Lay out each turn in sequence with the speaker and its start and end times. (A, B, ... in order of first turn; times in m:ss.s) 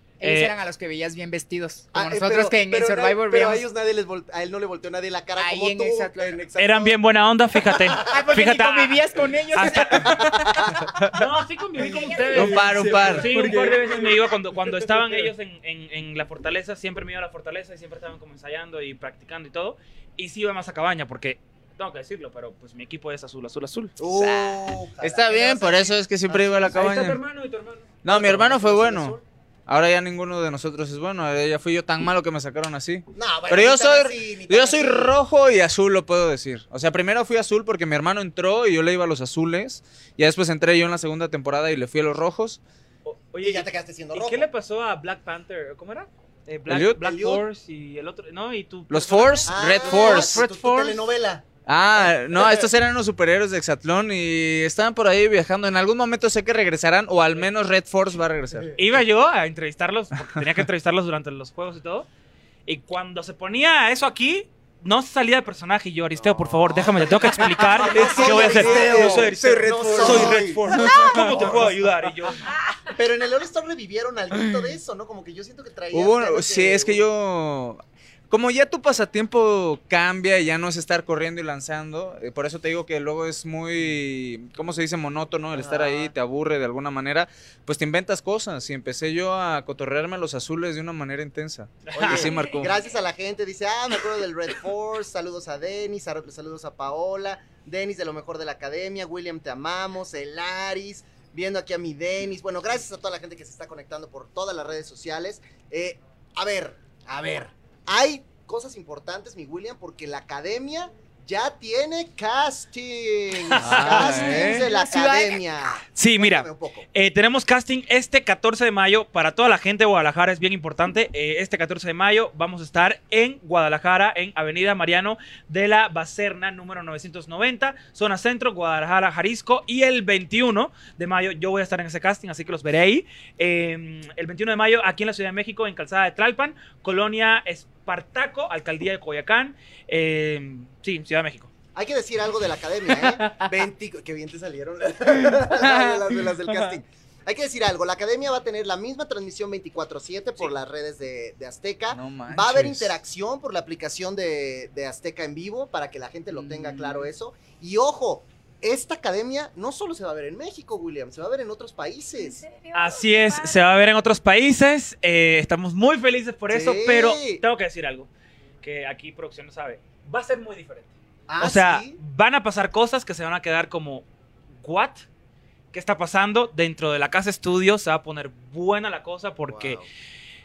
0:00.2-0:03.6 A
0:00.2-0:00.5 B
0:01.9-0:07.0 C
0:05.4-0:06.4 A
0:06.6-0:10.1 B
0:07.7-0:08.0 C
0:08.0-0:10.7 A
0:09.9-0:10.9 C
0:11.1-0:24.0 B
0:12.0-0:12.4 D
0:12.3-0:13.5 E
0:12.4-0:13.9 A
0:12.4-0:13.8 C
0:24.0-0:26.8 C
0:24.2-0:27.2 E
0:26.7-0:28.0 B
0:28.0-0:42.6 E
0:28.1-0:29.2 C
0:33.2-0:35.2 C
0:43.0-0:50.4 B
0:43.4-0:44.5 C
0:46.7-0:47.0 E
0:47.0-0:47.4 C
0:48.9-0:51.0 E
0:49.5-0:51.5 C
0:51.7-0:58.7 E
0:52.3-0:52.7 C
0:58.8-1:02.1 B
1:02.7-1:12.5 B
1:06.2-1:11.3 C
1:07.5-1:11.7 E
1:10.8-1:11.4 D
1:12.5-1:12.9 D
1:12.9-1:17.0 C
1:15.9-1:32.7 E
1:25.5-1:26.1 C
1:31.9-1:32.3 B
1:31.9-1:56.8 C
1:53.5-1:54.2 B
1:53.6-1:54.7 E
1:54.0-1:55.4 A
1:56.0-2:21.5 B
2:21.8-2:42.4 C
2:31.9-2:33.0 E
2:42.2-2:43.6 D
2:42.7-2:48.1 B
2:46.5-2:47.4 C
2:48.6-2:50.9 B
2:51.3-2:52.0 C
2:51.4-2:54.1 B
2:54.6-2:55.0 B
2:55.7-2:59.8 B
2:59.5-2:59.9 C